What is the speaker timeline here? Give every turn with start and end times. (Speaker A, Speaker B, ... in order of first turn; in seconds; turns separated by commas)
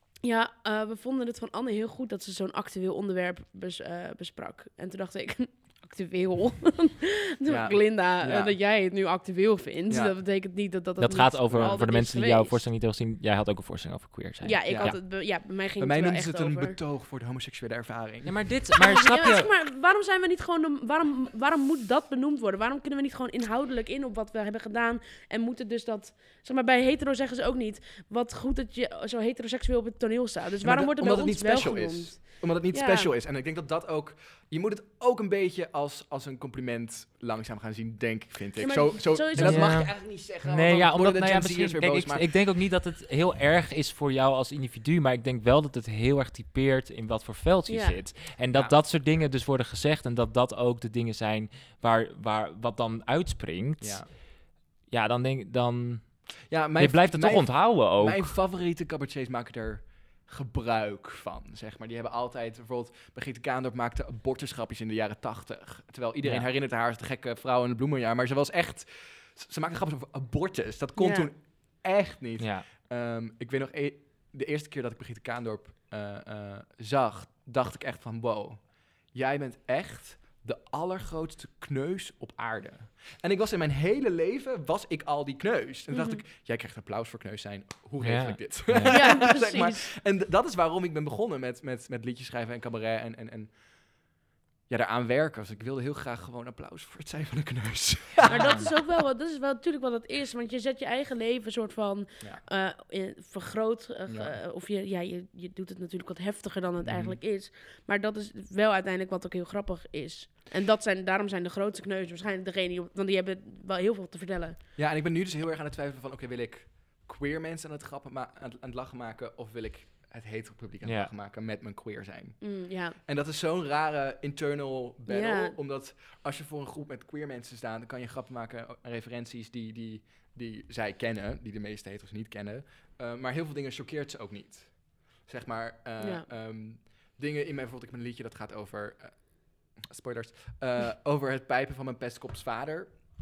Speaker A: 0.2-12.6, Speaker B: 7.5-8.6, Speaker B: 9.9-10.2, Speaker C: 11.0-15.0, Speaker A: 14.4-16.8, Speaker B: 14.7-15.1, Speaker B: 15.8-18.4, Speaker C: 18.2-19.5, Speaker A: 18.8-33.1, Speaker B: 30.6-42.3, Speaker A: 38.6-39.8, Speaker C: 39.4-54.2, Speaker A: 47.7-48.0, Speaker B: 48.5-48.8, Speaker B: 53.8-54.1, Speaker C: 54.9-58.3, Speaker B: 56.5-93.5, Speaker A: 71.0-71.3, Speaker C: 72.4-72.7, Speaker A: 85.9-86.2, Speaker C: 88.0-89.0, Speaker A: 88.9-89.9, Speaker B: 94.7-98.9, Speaker C: 98.2-98.7, Speaker A: 98.3-114.6, Speaker B: 104.1-104.3, Speaker B: 106.8-107.2, Speaker B: 114.8-142.9, Speaker C: 120.8-121.1, Speaker A: 122.4-123.0, Speaker A: 125.1-125.5, Speaker A: 136.0-136.2